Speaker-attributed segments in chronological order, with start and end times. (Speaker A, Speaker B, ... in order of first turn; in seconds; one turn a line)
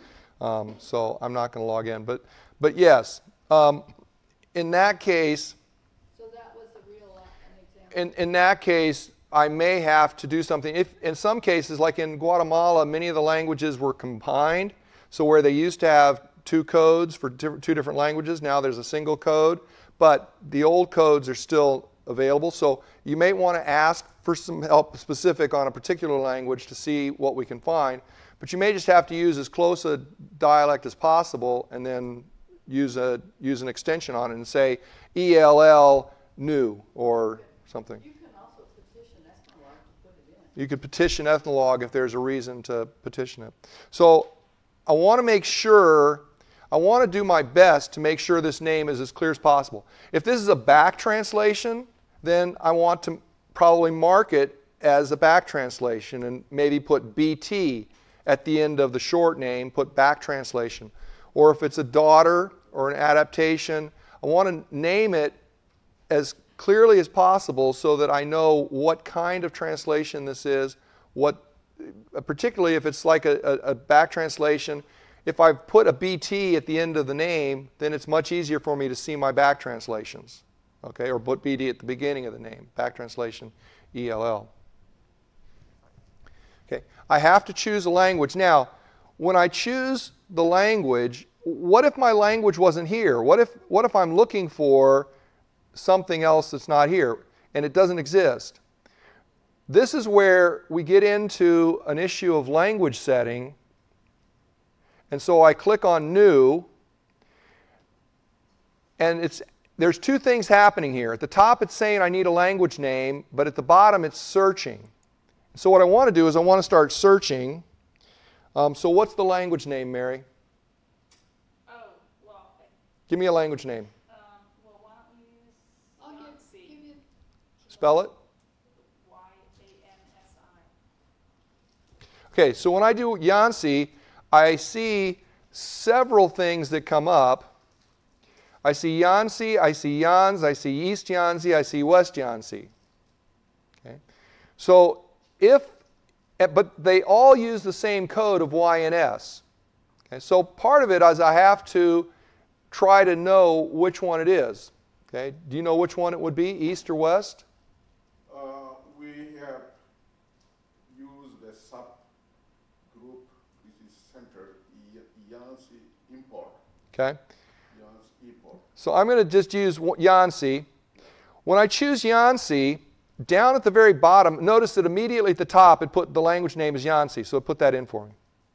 Speaker A: 0.4-3.9
Speaker A: 4.5-5.5
Speaker B: 6.1-8.3
Speaker A: 7.9-38.0
Speaker B: 37.0-40.6
Speaker A: 40.5-44.3
Speaker A: 44.9-65.4
Speaker A: 66.1-84.5
Speaker A: 86.7-95.1
Speaker A: 95.7-98.6
Speaker A: 99.7-103.5
Speaker A: 105.1-106.7
Speaker A: 109.0-114.9
Speaker A: 115.5-117.6
Speaker A: 118.5-120.2
Speaker C: 121.7-122.7
Speaker A: 123.1-123.9
Speaker C: 124.1-126.9
Speaker B: 126.0-127.0
Speaker A: 127.7-128.1
Speaker C: 128.8-130.7
Speaker A: 132.3-137.5
Speaker A: 138.6-142.7
Speaker A: 144.6-145.8
Speaker A: 146.4-149.4
Speaker A: 150.1-152.1
Speaker A: 152.7-157.4
Speaker D: 158.3-159.7
Speaker D: 160.9-162.1
Speaker D: 162.9-166.6
Speaker A: 166.9-167.2
Speaker D: 167.7-168.7
Speaker A: 168.8-170.7
Speaker A: 171.4-178.1